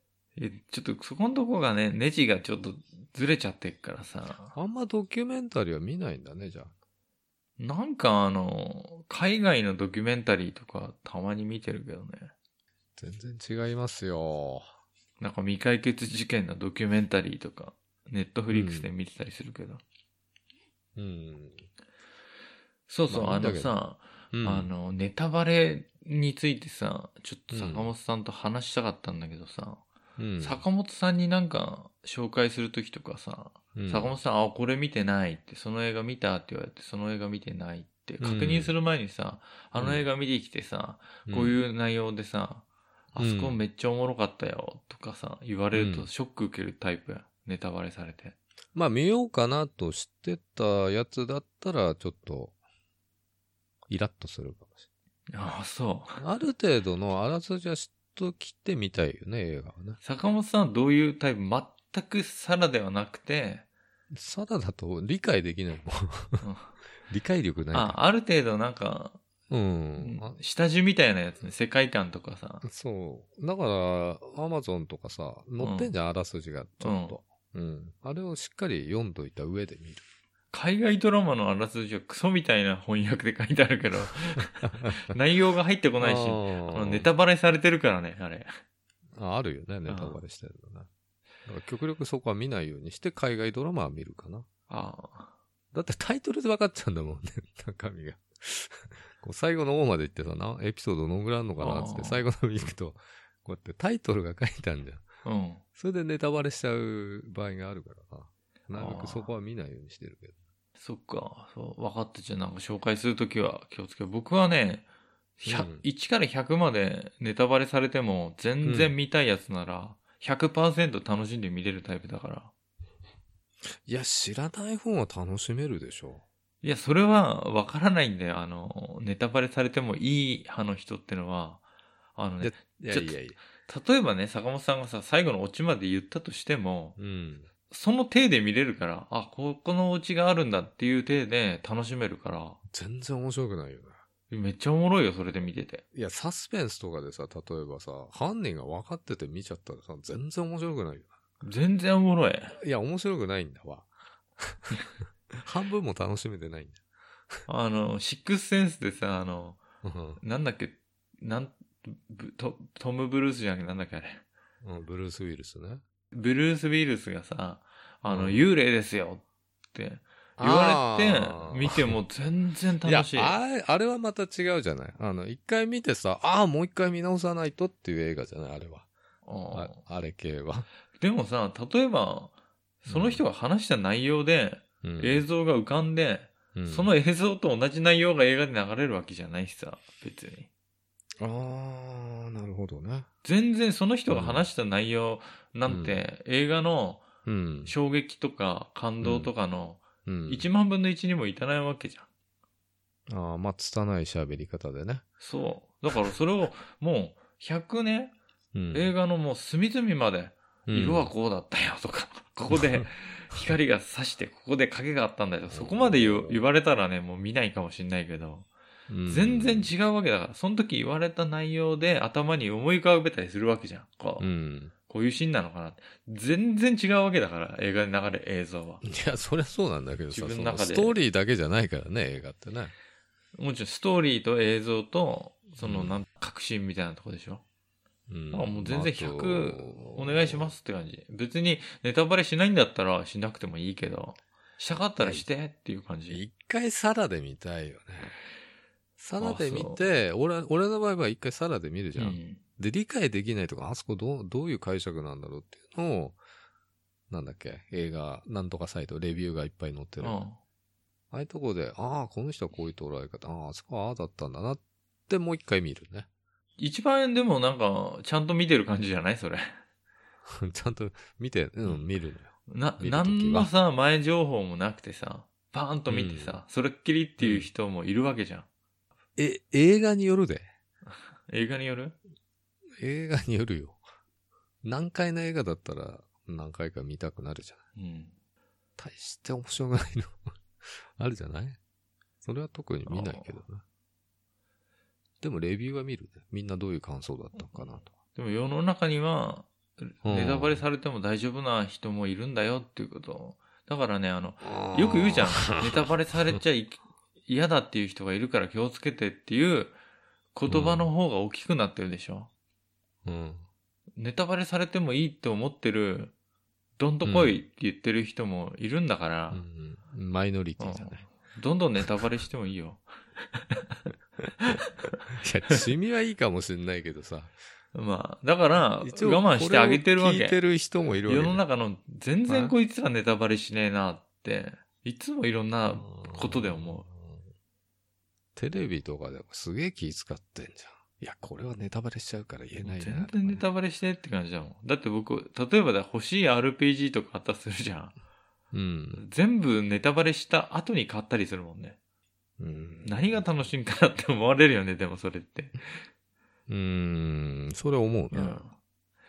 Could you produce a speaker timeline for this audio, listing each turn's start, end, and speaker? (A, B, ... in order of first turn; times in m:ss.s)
0:00.4-0:04.5 A
0:04.5-0:06.7 B
0:07.6-0:12.3 A
0:13.0-0:14.7 B
0:15.2-0:19.8 A
0:18.5-0:18.9 B
0:21.0-0:21.7 B
0:22.9-0:29.8 A
0:23.1-0:23.8 B
0:24.3-0:24.7 B
0:27.5-0:27.9 B
0:30.2-0:30.6 B
0:30.4-0:48.4 A
0:33.8-0:34.1 B
0:38.2-0:38.7 B
0:39.8-0:40.1 B
0:41.3-0:41.6 B
0:43.2-0:43.6 B
0:45.7-0:46.1 B
0:48.7-0:52.6 B
0:53.9-0:54.8 B
0:55.3-0:56.2 A
0:56.2-1:00.0 B
1:00.0-1:03.6 A
1:04.1-1:06.4 B
1:06.4-1:06.7 A
1:07.1-1:08.0 B
1:07.7-1:09.2 A
1:09.5-1:10.4 B
1:10.0-1:12.6 A
1:12.6-1:20.1 B
1:15.6-1:15.9 A
1:16.8-1:17.2 A
1:20.5-1:28.5 A
1:24.8-1:25.0 B
1:26.0-1:27.1 B
1:29.1-1:30.9 B
1:29.9-1:30.2 A
1:31.4-1:34.5 B
1:34.7-1:35.3 A
1:35.7-1:45.0 B
1:41.6-1:42.2 A
1:45.2-1:45.6 A
1:45.8-1:50.4 B
1:48.8-1:49.3 A
1:50.8-1:54.9 A
1:55.4-2:02.5 A
1:55.4-1:55.8 B
1:58.6-1:59.0 B
2:03.8-2:06.2 B
2:06.6-2:11.6 A
2:12.2-2:17.0 A
2:12.4-2:13.4 B
2:17.0-2:17.5 B
2:17.7-2:22.6 A
2:22.7-2:24.0 B
2:24.3-2:25.8 A
2:25.9-2:31.1 B
2:31.4-2:32.6 A
2:32.6-2:34.8 B
2:35.3-2:36.8 B
2:37.5-2:39.6 A
2:39.8-2:40.2 B
2:40.2-2:44.2 A
2:44.6-2:45.8 B
2:46.1-2:53.4 A
2:48.1-2:48.4 B
2:50.4-2:52.0 B
2:52.8-2:58.9 B
2:59.2-2:59.8 A
2:59.5-3:00.7 B
3:01.0-3:10.5 A
3:02.9-3:03.2 B
3:04.8-3:05.3 B
3:06.6-3:06.9 B
3:11.2-3:13.1 B
3:13.2-3:17.1 A
3:14.1-3:14.5 B
3:15.7-3:16.0 B
3:17.2-3:17.8 B
3:17.6-3:22.1 A
3:19.0-3:19.3 B
3:20.1-3:20.5 B
3:23.1-3:25.0 B
3:25.2-3:28.1 A
3:28.5-3:28.9 B
3:28.7-3:38.5 A
3:30.7-3:31.1 B
3:32.5-3:32.8 B
3:35.5-3:36.4 B
3:38.9-3:39.7 B
3:39.1-3:44.3 A
3:44.2-3:44.7 B
3:44.9-3:48.8 A
3:48.8-3:52.7 B
3:50.1-3:51.0 A
3:53.4-3:57.4 A
3:55.6-3:56.0 B
3:58.1-4:00.6 B
3:58.3-4:06.2 A
4:05.0-4:05.3 B
4:06.1-4:08.2 B
4:09.0-4:16.2 B
4:09.2-4:09.8 A
4:12.0-4:12.4 A
4:17.1-4:20.2 B
4:20.0-4:20.4 A
4:21.1-4:26.1 B
4:26.6-4:29.6 A
4:30.3-4:33.5 B
4:32.5-4:38.5 A
4:35.9-4:36.4 B
4:37.2-4:37.5 B
4:39.2-4:40.5 B
4:41.3-4:42.0 A
4:42.8-4:43.8 B
4:44.6-4:47.6 B
4:47.8-4:48.1 A
4:48.8-4:51.6 B
4:52.2-4:53.6 B
4:52.9-4:53.4 A
4:55.2-4:57.9 B
4:57.4-5:09.8 A
5:00.0-5:00.6 B
5:04.4-5:06.4 B
5:10.3-5:12.3 A
5:10.5-5:10.9 B
5:13.0-5:13.4 B
5:14.0-5:16.1 A
5:16.8-5:19.4 A
5:17.0-5:17.4 B
5:19.3-5:21.0 B
5:20.6-5:23.9 A
5:24.4-5:25.0 A
5:25.1-5:27.4 B
5:27.7-5:30.4 A
5:28.8-5:31.4 B
5:31.1-5:36.9 A
5:32.3-5:32.6 B
5:35.7-5:37.3 B
5:38.4-5:43.5 B
5:42.6-5:48.0 A
5:48.5-5:49.0 B
5:48.9-5:51.8 A
5:52.4-5:53.3 B
5:52.8-5:55.8 A
5:56.5-5:58.4 B
5:58.1-5:58.6 A